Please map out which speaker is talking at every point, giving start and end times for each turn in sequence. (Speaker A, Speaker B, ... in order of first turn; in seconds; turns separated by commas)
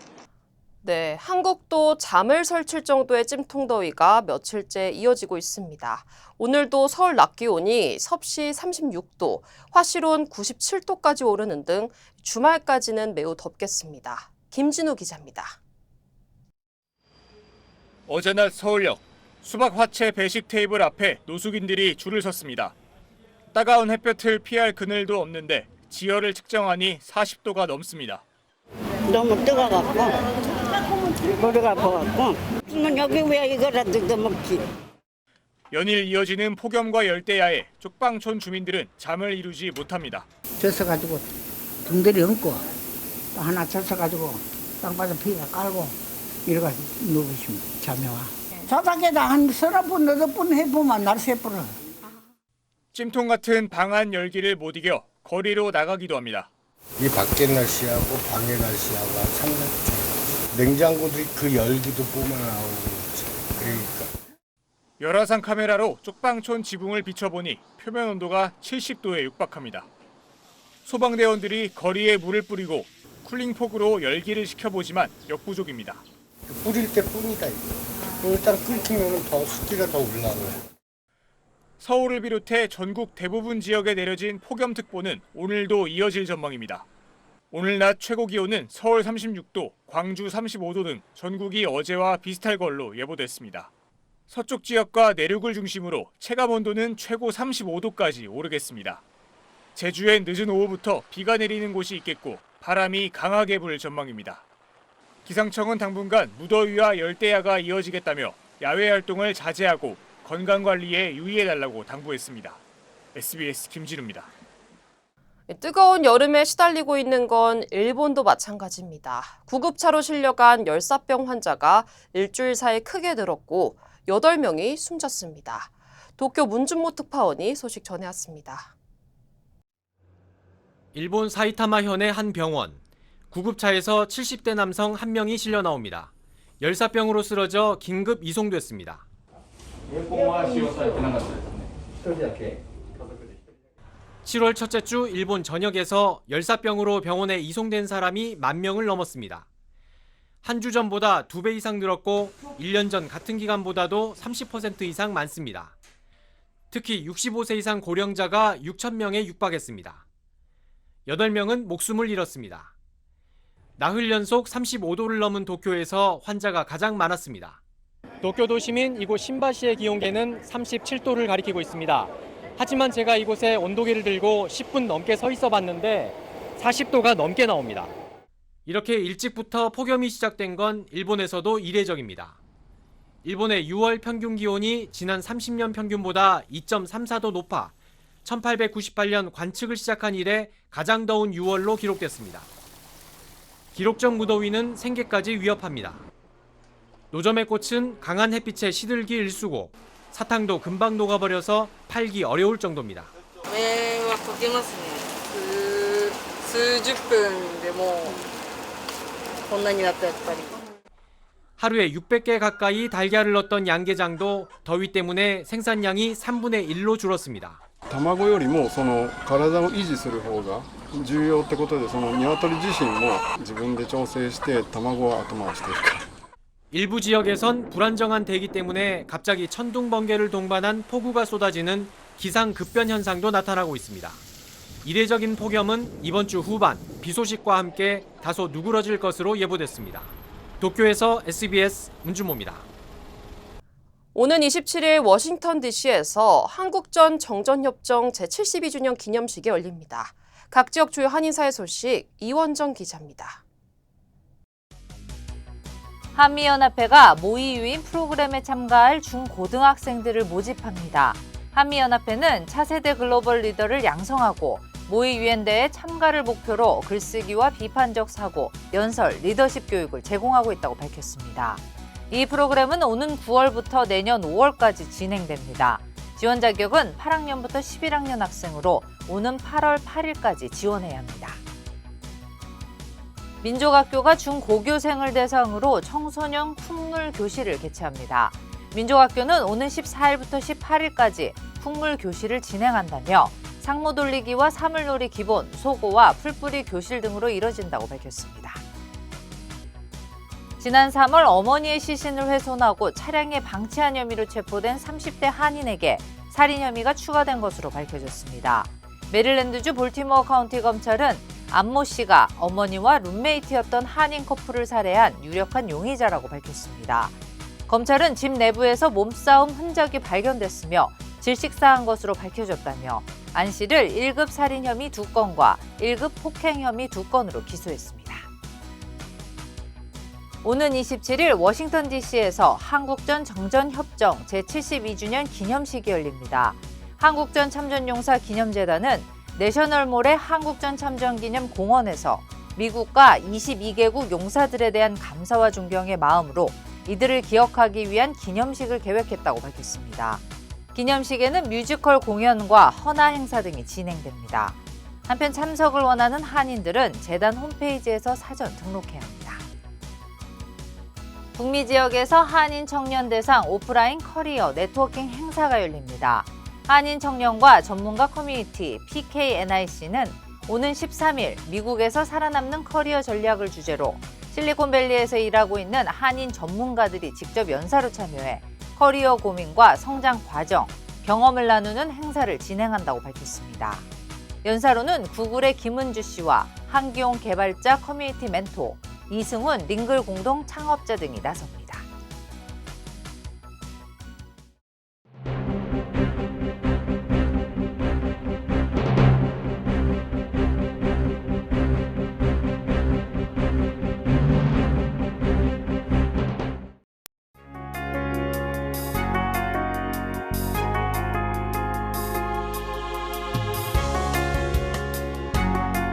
Speaker A: 0.8-15.6, Speaker B: 18.1-22.7, Speaker B: 23.5-28.2, Speaker C: 29.1-30.2, Speaker C: 31.2-34.6, Speaker B: 35.7-40.3, Speaker D: 40.6-41.3, Speaker D: 41.8-42.6, Speaker D: 43.3-51.8, Speaker B: 52.9-56.5, Speaker E: 57.0-64.1, Speaker B: 65.0-69.9, Speaker B: 70.8-76.0, Speaker E: 76.5-80.6, Speaker B: 81.8-86.9, Speaker B: 87.5-93.7, Speaker B: 94.3-99.0, Speaker B: 99.8-104.4, Speaker B: 105.2-112.6, Speaker B: 113.1-114.3, Speaker A: 115.5-128.7, Speaker F: 130.9-139.0, Speaker F: 144.2-149.4, Speaker F: 150.4-155.7, Speaker F: 156.7-160.0, Speaker F: 161.1-162.7, Speaker F: 163.8-167.6, Speaker F: 168.2-177.9, Speaker F: 178.7-182.4, Speaker F: 183.2-192.5, Speaker F: 193.7-196.0, Speaker F: 197.1-203.1, Speaker G: 203.5-208.2, Speaker G: 209.5-210.5, Speaker F: 211.6-217.6, Speaker H: 217.9-226.1, Speaker F: 226.7-234.2, Speaker F: 234.8-242.7, Speaker A: 244.1-253.4, Speaker I: 256.1-281.4, Speaker I: 283.4-298.6, Speaker I: 300.6-317.2, Speaker I: 317.7-328.2, Speaker I: 330.4-350.2, Speaker I: 350.7-359.4, Speaker I: 361.3-383.8, Speaker I: 384.4-391.9